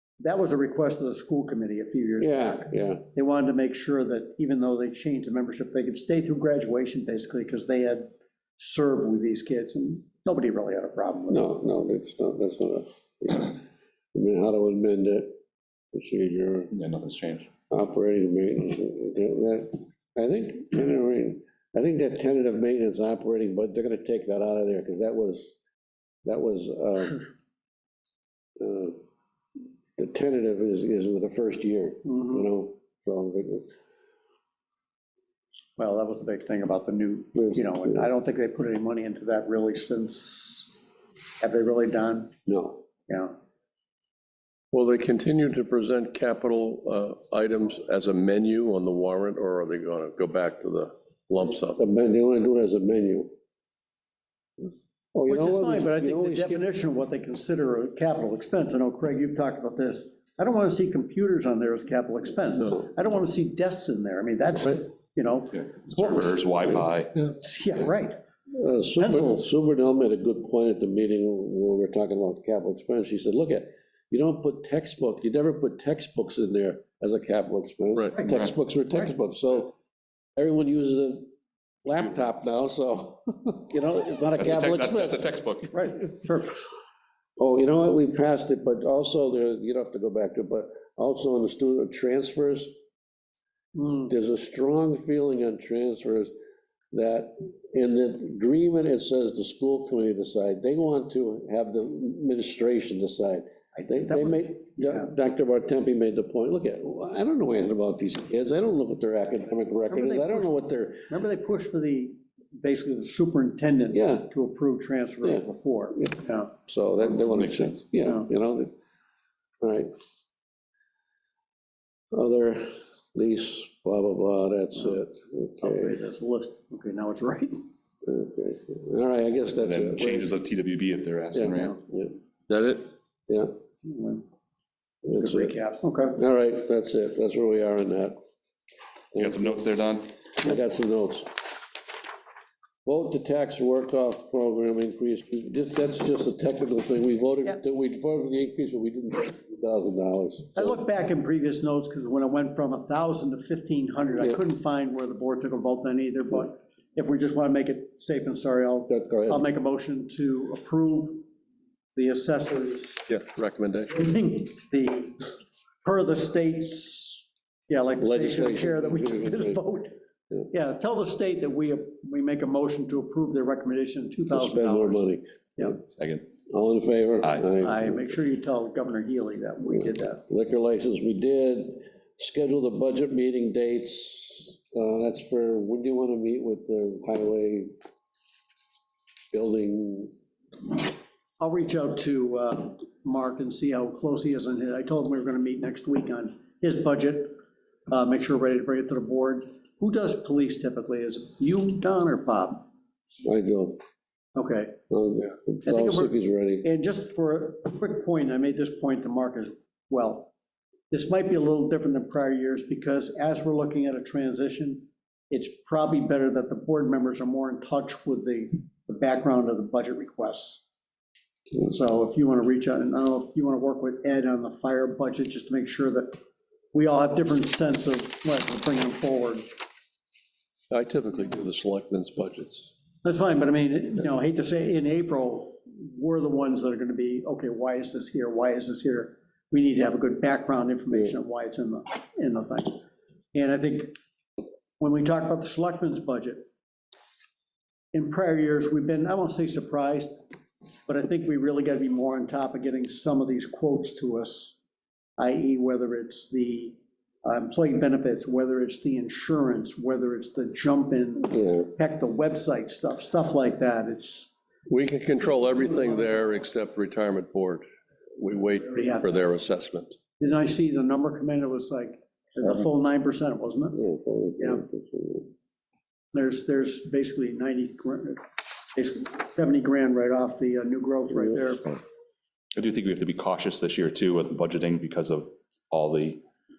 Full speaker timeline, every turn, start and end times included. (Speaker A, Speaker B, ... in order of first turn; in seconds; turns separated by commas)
Speaker A: 0.2-11.5, Speaker B: 2.2-3.0, Speaker B: 11.3-13.6, Speaker B: 14.1-15.3, Speaker B: 15.9-16.7, Speaker C: 16.7-17.5, Speaker B: 17.7-25.6, Speaker B: 26.2-27.2, Speaker B: 28.6-29.0, Speaker B: 30.0-33.7, Speaker A: 32.1-32.5, Speaker A: 35.8-40.7, Speaker B: 37.4-38.1, Speaker A: 41.4-42.3, Speaker B: 42.5-42.8, Speaker A: 43.1-43.4, Speaker D: 44.7-51.8, Speaker B: 51.8-53.3, Speaker B: 55.1-56.7, Speaker A: 55.3-66.4, Speaker C: 65.5-67.3, Speaker A: 67.3-68.2, Speaker B: 68.5-79.8, Speaker A: 69.0-69.4, Speaker B: 80.4-81.3, Speaker B: 81.8-85.3, Speaker C: 84.4-85.8, Speaker A: 85.7-86.6, Speaker B: 87.4-92.7, Speaker A: 93.8-94.1, Speaker B: 94.1-96.3, Speaker B: 96.9-111.1, Speaker A: 103.8-105.1, Speaker A: 109.9-110.6, Speaker A: 111.1-116.5, Speaker B: 113.9-114.3, Speaker B: 116.7-118.7, Speaker C: 117.2-117.8, Speaker B: 119.6-119.9, Speaker B: 122.1-126.0, Speaker A: 125.6-127.7, Speaker B: 128.1-130.3, Speaker C: 129.6-131.8, Speaker B: 131.3-132.1, Speaker D: 132.5-132.9, Speaker A: 133.8-134.2, Speaker B: 135.0-135.5, Speaker A: 135.2-136.2, Speaker B: 136.2-138.2, Speaker B: 139.2-139.7, Speaker C: 139.2-140.1, Speaker B: 140.4-141.4, Speaker B: 142.8-150.8, Speaker A: 150.6-161.3, Speaker B: 158.9-159.5, Speaker A: 161.9-163.1, Speaker D: 163.1-164.0, Speaker A: 163.9-165.3, Speaker A: 165.8-169.9, Speaker B: 168.0-169.6, Speaker A: 170.5-175.8, Speaker B: 174.3-175.8, Speaker C: 175.9-176.3, Speaker B: 176.5-178.1, Speaker C: 177.2-177.5, Speaker A: 177.6-180.2, Speaker B: 180.3-187.7, Speaker B: 189.3-190.1, Speaker A: 191.4-202.7, Speaker B: 203.2-203.8, Speaker A: 204.3-204.8, Speaker B: 204.9-206.7, Speaker A: 205.6-210.3, Speaker A: 210.9-220.6, Speaker A: 221.6-226.2, Speaker A: 226.7-229.5, Speaker D: 230.7-232.7, Speaker A: 233.0-242.8, Speaker A: 243.3-244.0, Speaker A: 244.8-246.5, Speaker A: 247.9-250.2, Speaker A: 250.9-254.6, Speaker A: 255.2-264.3, Speaker B: 261.3-261.7, Speaker D: 264.7-267.6, Speaker D: 268.2-270.0, Speaker A: 268.7-269.1, Speaker A: 270.2-273.8, Speaker B: 273.8-275.3, Speaker A: 276.1-281.8, Speaker C: 282.6-286.2